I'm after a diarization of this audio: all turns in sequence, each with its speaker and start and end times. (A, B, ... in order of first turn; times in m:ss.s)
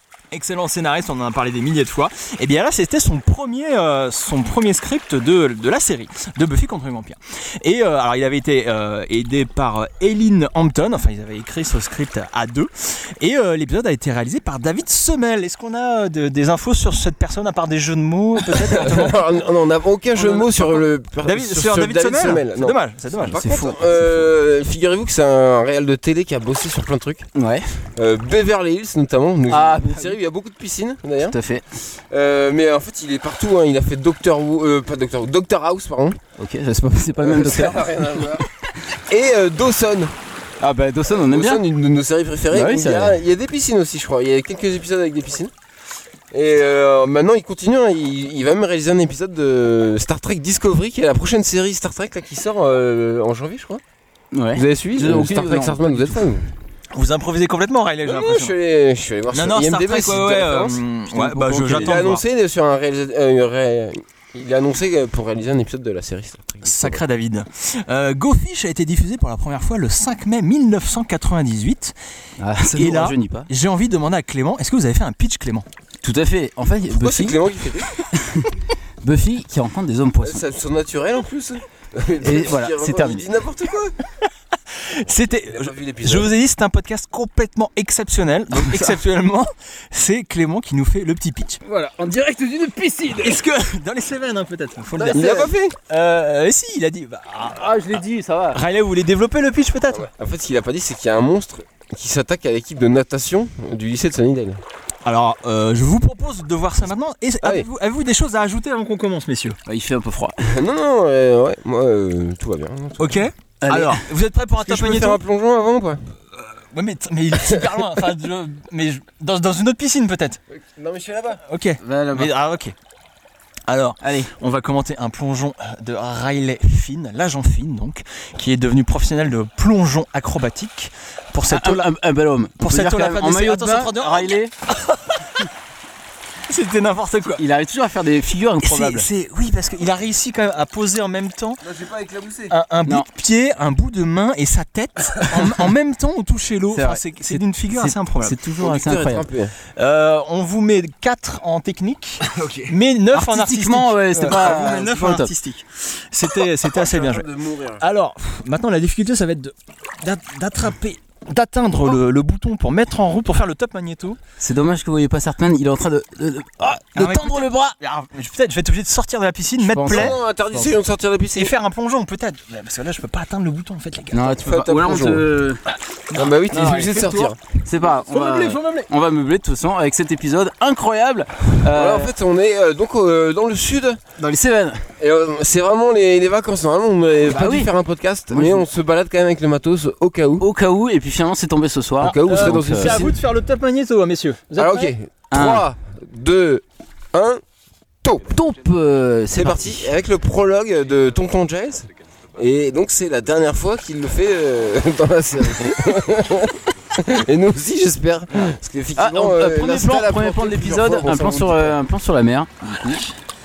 0:00.3-0:19.2 A
0:18.6-0:27.3 B
0:20.1-0:20.8 C
0:21.2-0:23.4 A
0:23.3-0:24.3 C
0:27.4-0:27.6 C
0:28.0-0:31.4 B
0:29.5-0:30.1 C
0:31.3-0:31.8 C
0:32.1-0:36.2 B
0:36.4-0:38.4 C
0:37.2-0:38.4 B
0:39.0-0:40.1 B
0:40.6-0:41.6 C
0:41.1-0:45.5 B
0:42.5-0:43.2 C
0:46.3-0:53.8 B
0:54.3-0:56.2 C
0:54.5-0:56.4 B
0:56.9-0:58.5 A
0:58.0-1:00.8 B
0:59.3-1:02.2 A
1:01.1-1:02.1 C
1:01.7-1:07.0 B
1:06.6-1:11.9 A
1:12.4-1:13.5 C
1:12.7-1:15.7 A
1:16.0-1:17.4 C
1:16.9-1:17.9 B
1:18.1-1:18.5 C
1:19.0-1:20.4 C
1:20.2-1:23.9 B
1:22.2-1:23.2 C
1:24.7-1:31.6 A
1:25.4-1:26.3 B
1:28.5-1:29.0 C
1:31.6-1:33.4 C
1:33.2-1:37.7 A
1:35.0-1:35.7 B
1:37.5-1:38.6 C
1:38.5-1:40.1 A
1:39.9-1:44.6 B
1:45.0-1:49.6 A
1:47.4-1:47.7 B
1:49.7-1:50.5 C
1:50.5-1:53.3 B
1:53.0-1:55.2 A
1:53.6-1:54.0 C
1:54.6-1:56.0 B
1:56.3-2:00.4 A
1:57.4-1:57.8 B
2:00.5-2:01.4 B
2:01.5-2:02.7 A
2:01.8-2:02.3 C
2:03.7-2:11.8 A
2:04.0-2:04.3 C
2:11.5-2:14.5 C
2:12.6-2:15.4 A
2:16.5-2:17.4 A
2:17.4-2:19.1 C
2:18.6-2:21.6 A
2:21.6-2:22.5 B
2:22.5-2:28.4 A
2:26.7-2:29.3 C
2:28.6-2:29.5 B
2:29.8-2:37.3 A
2:32.3-2:32.7 B
2:33.1-2:35.3 C
2:34.3-2:34.8 B
2:36.6-2:37.8 B
2:37.8-2:44.2 A
2:44.4-2:47.7 C
2:47.0-2:50.1 A
2:49.7-2:50.7 C
2:49.8-2:51.5 B
2:51.3-2:54.3 A
2:54.1-2:55.6 C
2:54.4-2:55.3 B
2:56.1-2:57.4 B
2:56.2-2:57.2 A
2:56.5-3:02.1 C
2:57.8-2:58.9 A
3:01.7-3:04.0 B
3:04.2-3:04.8 C
3:05.0-3:10.5 B
3:07.2-3:07.7 C
3:08.3-3:08.7 C
3:10.4-3:13.0 C
3:12.0-3:13.2 B
3:12.0-3:14.9 A
3:14.6-3:17.4 B
3:15.3-3:15.6 C
3:18.0-3:18.4 B
3:18.3-3:19.9 C
3:19.3-3:31.8 B
3:29.0-3:33.0 C